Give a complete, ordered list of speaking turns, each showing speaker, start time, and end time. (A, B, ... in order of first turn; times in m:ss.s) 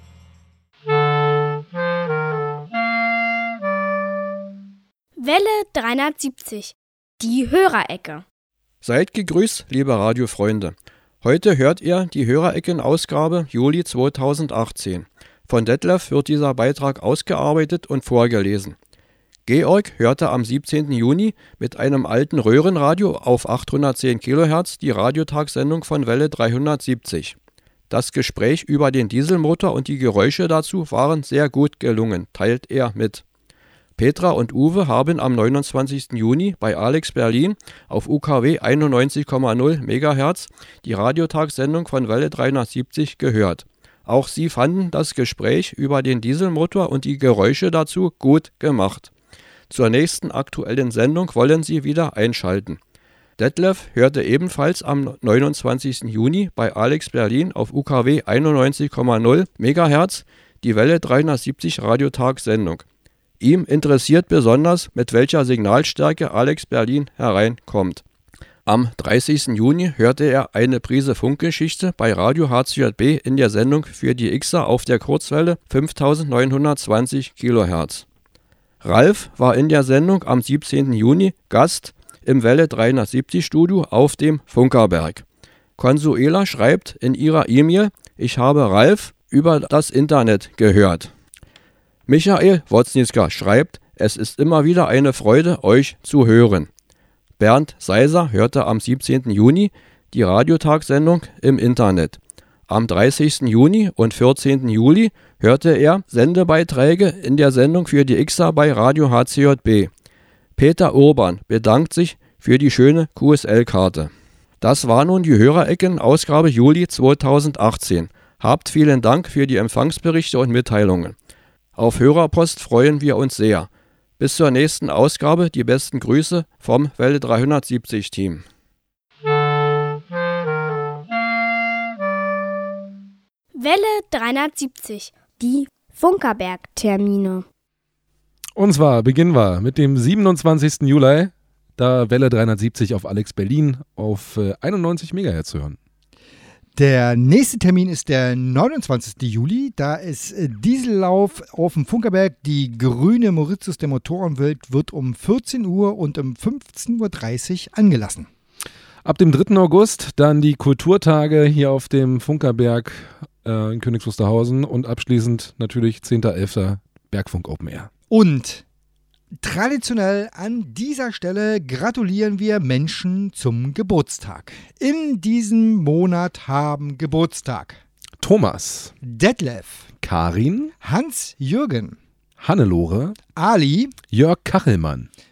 0:05.2-0:08.2 A
0:08.8-0:18.8 B
0:19.4-0:27.4 B
0:27.9-0:33.2 B
0:34.0-0:49.1 B
0:49.7-0:52.8 B
0:53.4-1:02.8 B
1:03.4-1:08.0 B
1:08.6-1:18.0 B
1:18.8-1:25.2 B
1:25.8-1:31.1 B
1:32.1-1:36.7 B
1:37.4-1:49.9 B
1:50.6-2:01.1 B
2:01.8-2:08.4 B
2:13.5-2:17.4 A
2:18.6-2:25.8 C
2:26.8-2:38.3 D
2:39.0-2:47.9 C
2:48.1-2:48.6 D
2:49.4-2:57.8 D
2:58.2-2:58.9 C
2:59.0-2:59.9 D
3:00.0-3:00.7 C
3:00.8-3:02.0 D
3:02.4-3:03.2 C
3:03.4-3:03.9 D
3:04.1-3:05.1 C